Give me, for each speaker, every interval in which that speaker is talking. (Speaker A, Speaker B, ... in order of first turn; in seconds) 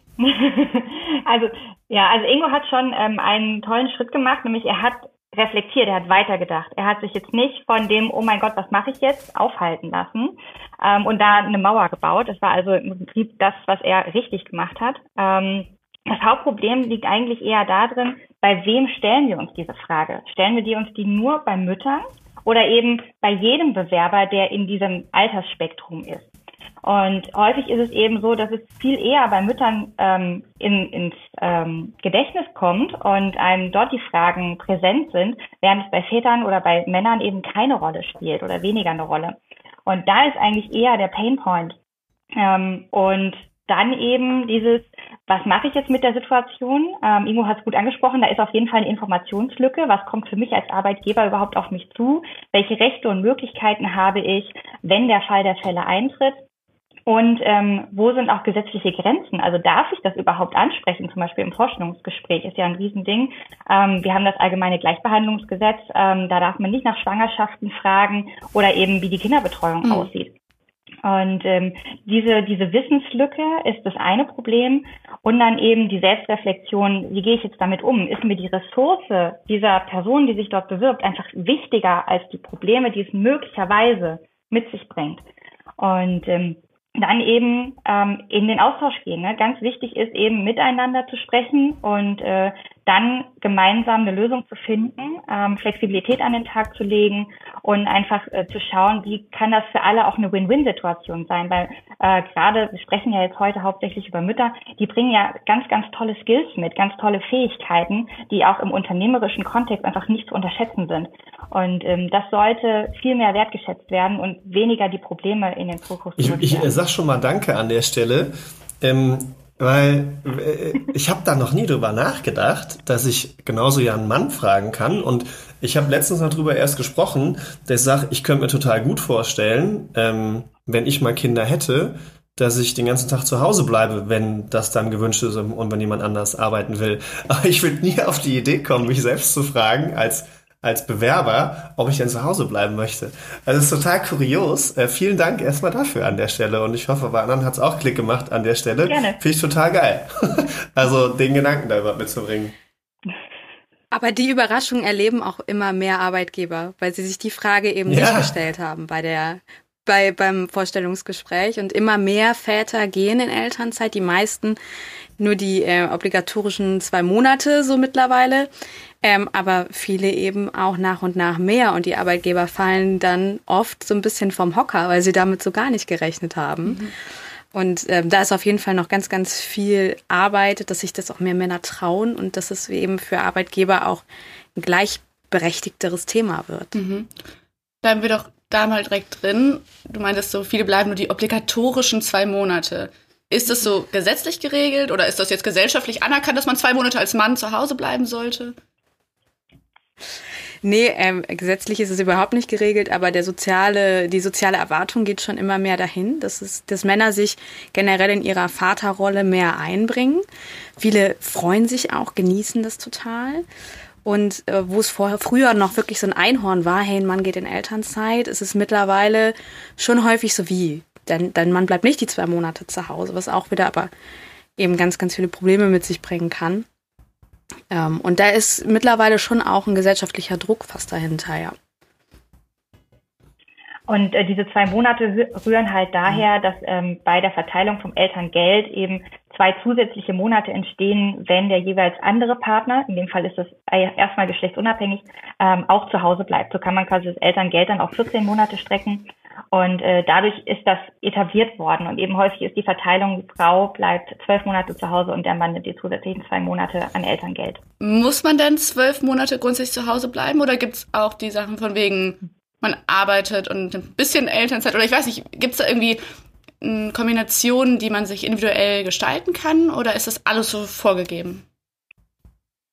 Speaker A: 0.2-26.3, 26.8-41.8, 42.4-56.4, 57.1-70.3, 71.0-85.2, 85.8-116.7, 148.8-149.2, 233.9-257.6
Speaker B: 69.8-70.1, 186.7-187.1, 187.8-198.5, 257.8-266.0, 266.6-271.4
Speaker C: 116.2-152.5, 157.9-158.3
Speaker D: 153.9-164.6, 165.2-168.5, 169.0-176.9, 177.5-184.0, 184.6-186.8, 200.6-210.2, 210.8-213.4, 214.0-223.9, 224.6-226.7, 227.7-231.5